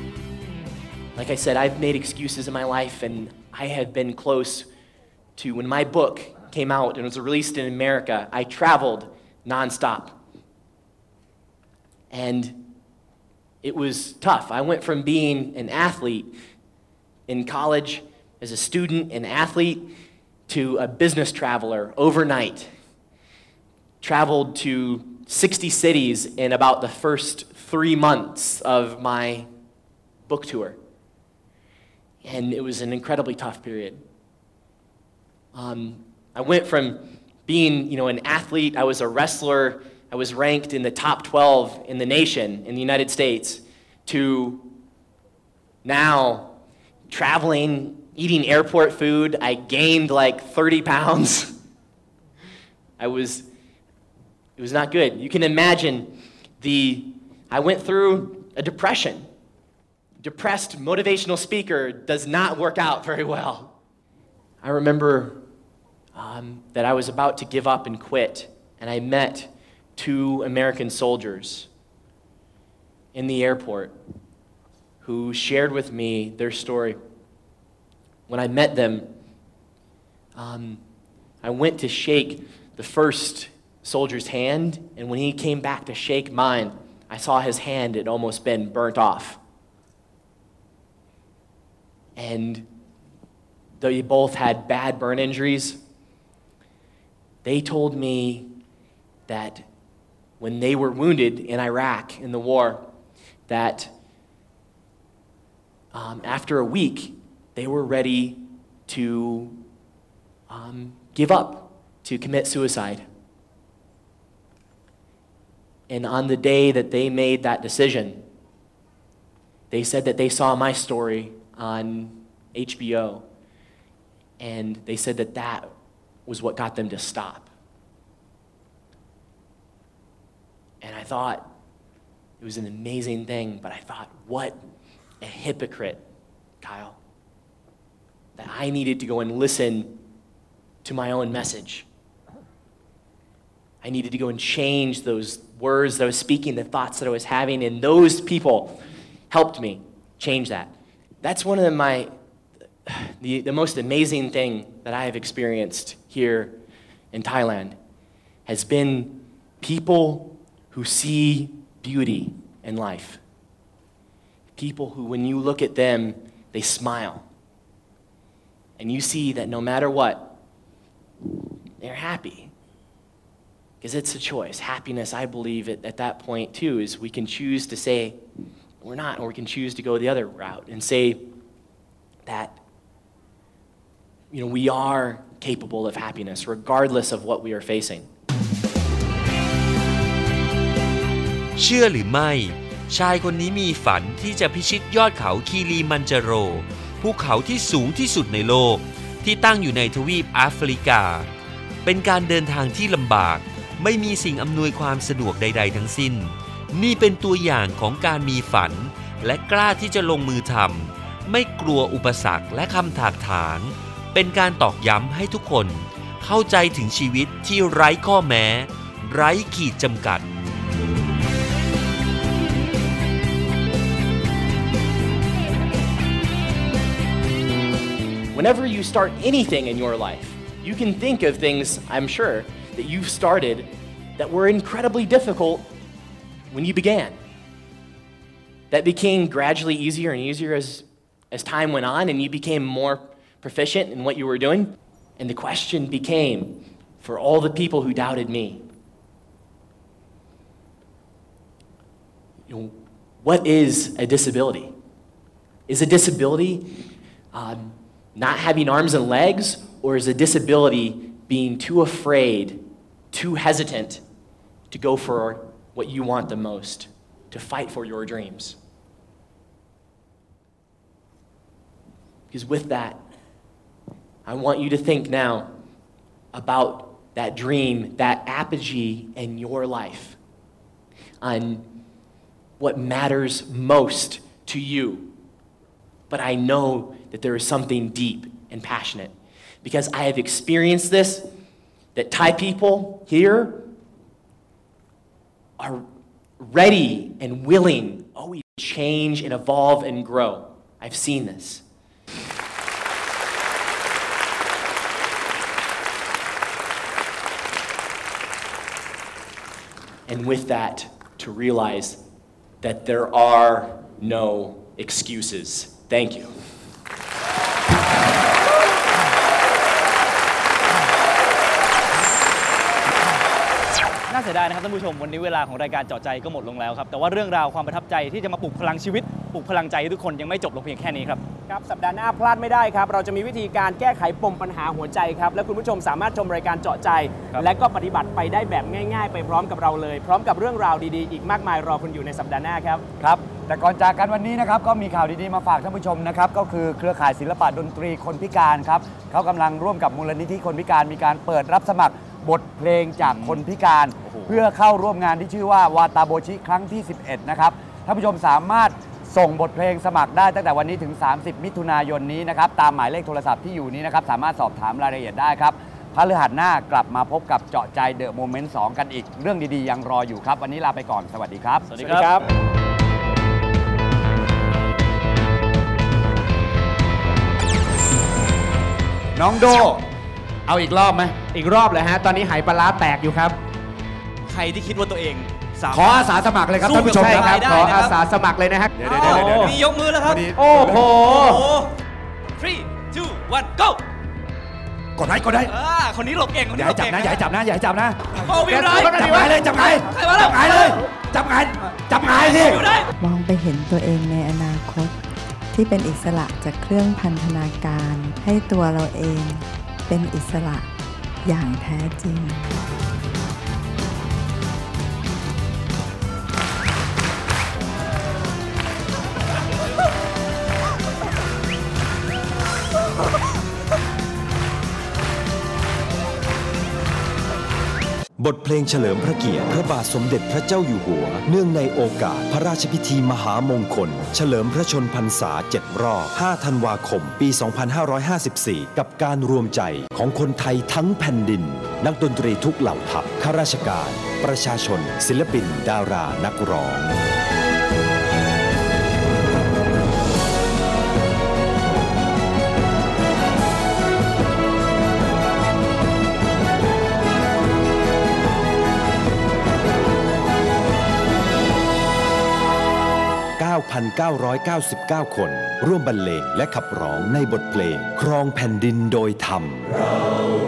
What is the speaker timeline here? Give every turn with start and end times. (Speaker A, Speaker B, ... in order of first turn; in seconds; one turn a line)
Speaker A: 1.2-4.7
Speaker A: 5.4-10.2
Speaker A: 12.1-12.7
Speaker A: 13.6-16.3
Speaker A: 17.3-19.9
Speaker A: 20.5-22.7
Speaker A: 24.0-29.5
Speaker A: 30.3-30.8
Speaker A: 32.2-34.0
Speaker A: 35.5-44.7
Speaker A: 45.8-46.5
Speaker A: 47.1-51.5
Speaker A: 53.0-53.5
Speaker A: 54.6-59.3
Speaker A: 60.2-63.8
Speaker A: 64.6-65.4
Speaker A: 66.2-71.7
Speaker A: 73.1-74.0
Speaker A: 75.0-77.0
Speaker A: 78.3-79.1
Speaker A: 80.4-80.8
Speaker A: 81.4-89.4
Speaker A: 92.2-92.7
Speaker A: 93.8-95.8
Speaker A: 97.4-98.5
Speaker A: 99.3-99.7
Speaker A: 100.4-102.9
Speaker A: 103.5-103.9
Speaker A: 105.9-109.6
Speaker A: 110.5-113.0
Speaker A: 115.9-118.2
Speaker A: 119.7-123.2
Speaker A: 124.4-125.7
Speaker A: 126.3-127.5
Speaker A: 130.8-131.5
Speaker A: 132.4-134.6
Speaker A: 135.2-136.0
Speaker A: 136.6-137.0
Speaker A: 138.4-140.0
Speaker A: 140.8-141.9
Speaker A: 143.8-152.1
Speaker A: 152.8-156.6
Speaker A: 157.1-157.8
Speaker A: 158.5-163.2
Speaker A: 164.6-167.3
Speaker A: 168.8-170.4
Speaker A: 171.8-172.5
Speaker A: 173.8-178.2
Speaker A: 178.8-181.3
Speaker A: 182.2-182.6
Speaker A: 184.3-188.1
Speaker B: 191.6-201.3
Speaker B: 201.8-220.3
Speaker A: 228.3-235.7
Speaker A: 236.5-237.2
Speaker A: 238.7-248.7
Speaker A: 252.5-254.7
Speaker A: 255.7-256.8
Speaker A: 257.3-264.0
Speaker A: 264.7-268.6
Speaker A: 272.3-273.0
Speaker A: 274.2-275.5
Speaker A: 276.3-280.2
Speaker A: 281.2-281.7
Speaker A: 282.6-285.1
Speaker A: 286.1-291.3
Speaker A: 291.9-293.7
Speaker A: 295.6-295.8
Speaker A: 296.4-301.6
Speaker A: 310.1-312.0
Speaker A: 312.6-316.4
Speaker C: 324.1-331.2
Speaker D: 331.5-342.9
Speaker E: 343.0-372.0
Speaker C: 353.1-353.4
Speaker C: 354.1-354.4
Speaker C: 371.7-372.2
Speaker E: 379.2-379.8
Speaker E: 380.5-381.2
Speaker D: 381.3-383.4
Speaker C: 384.3-386.0
Speaker E: 385.7-388.0
Speaker C: 386.6-388.0
Speaker D: 387.0-388.8
Speaker E: 388.8-391.2
Speaker C: 388.8-391.7
Speaker D: 390.3-391.3
Speaker C: 392.4-393.8
Speaker E: 395.0-395.5
Speaker C: 395.5-397.2
Speaker E: 396.5-398.3
Speaker C: 398.2-400.8
Speaker D: 398.5-399.3
Speaker E: 398.8-402.7
Speaker C: 402.2-402.9
Speaker F: 403.0-404.9
Speaker F: 405.5-410.7
Speaker F: 411.2-412.4
Speaker G: 428.2-447.0
Speaker G: 463.4-469.8